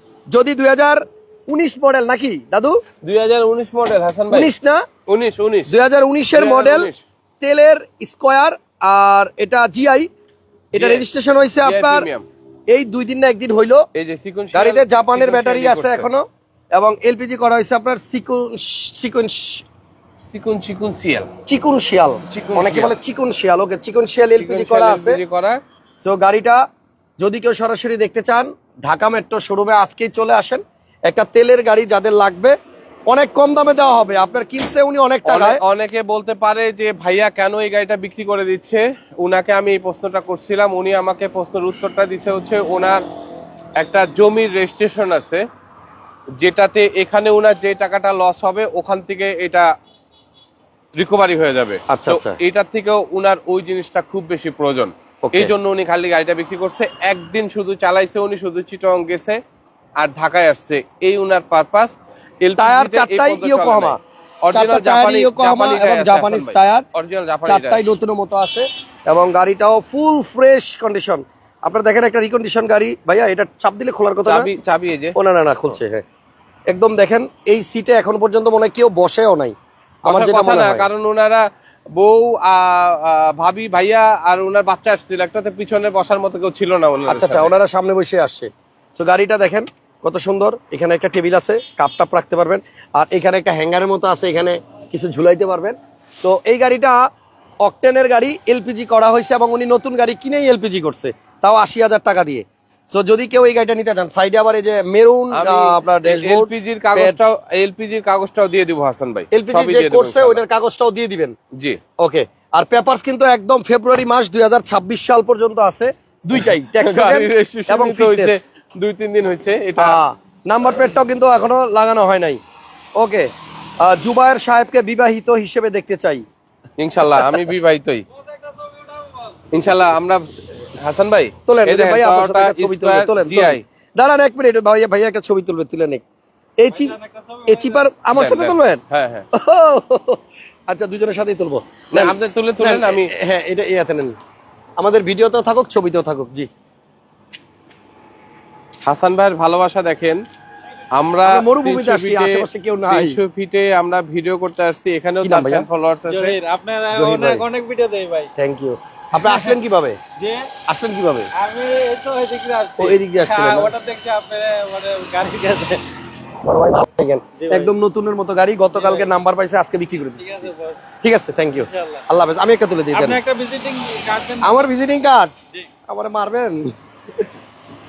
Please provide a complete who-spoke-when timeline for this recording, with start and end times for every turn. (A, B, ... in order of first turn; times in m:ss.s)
0:00.3-0:02.8 A
0:03.0-0:04.5 B
0:04.3-0:04.8 A
0:05.1-0:05.7 B
0:05.7-0:10.1 A
0:06.3-0:07.0 B
0:10.7-0:12.1 A
0:10.8-0:11.1 B
0:11.6-0:12.3 B
0:12.7-0:13.8 A
0:13.9-0:16.1 B
0:14.5-0:16.2 A
0:16.7-0:19.6 A
0:20.2-0:21.3 B
0:21.4-0:25.2 A
0:22.3-0:22.9 B
0:24.4-0:25.6 B
0:26.0-0:26.6 A
0:27.2-0:32.5 A
0:33.1-0:35.6 A
0:35.2-0:43.0 B
0:43.8-0:45.4 B
0:46.4-0:49.7 B
0:51.0-0:59.4 B
0:51.9-0:52.4 A
0:55.2-0:55.5 A
1:00.0-1:07.9 B
1:02.6-1:04.0 A
1:04.5-1:06.8 A
1:07.4-1:14.5 A
1:14.2-1:15.1 B
1:15.1-1:16.0 A
1:16.7-1:20.9 A
1:20.0-1:27.5 B
1:27.1-1:37.0 A
1:37.6-1:47.2 A
1:45.3-1:50.4 B
1:49.3-1:51.4 A
1:51.5-1:51.8 B
1:52.0-1:58.4 A
1:56.4-2:00.0 B
1:59.8-2:02.4 A
2:03.0-2:03.3 A
2:03.8-2:06.2 A
2:06.8-2:08.0 B
2:09.5-2:13.6 B
2:11.5-2:16.0 A
2:16.6-2:18.8 A
2:17.0-2:17.6 C
2:18.1-2:19.3 B
2:19.3-2:24.1 A
2:21.9-2:23.1 B
2:24.8-2:26.5 A
2:28.8-2:30.2 B
2:30.9-2:36.4 B
2:31.2-2:33.2 A
2:35.2-2:35.6 A
2:36.1-2:38.3 C
2:36.9-2:37.4 A
2:38.4-2:40.0 A
2:40.2-2:40.5 C
2:40.7-2:41.3 A
2:41.3-2:45.8 C
2:42.8-2:43.7 A
2:46.4-2:50.5 A
2:47.4-2:47.7 C
2:48.8-2:49.1 C
2:50.3-2:50.8 C
2:51.0-2:53.2 A
2:51.7-2:52.0 C
2:52.9-2:54.6 C
2:54.4-2:55.3 A
2:55.9-2:56.7 A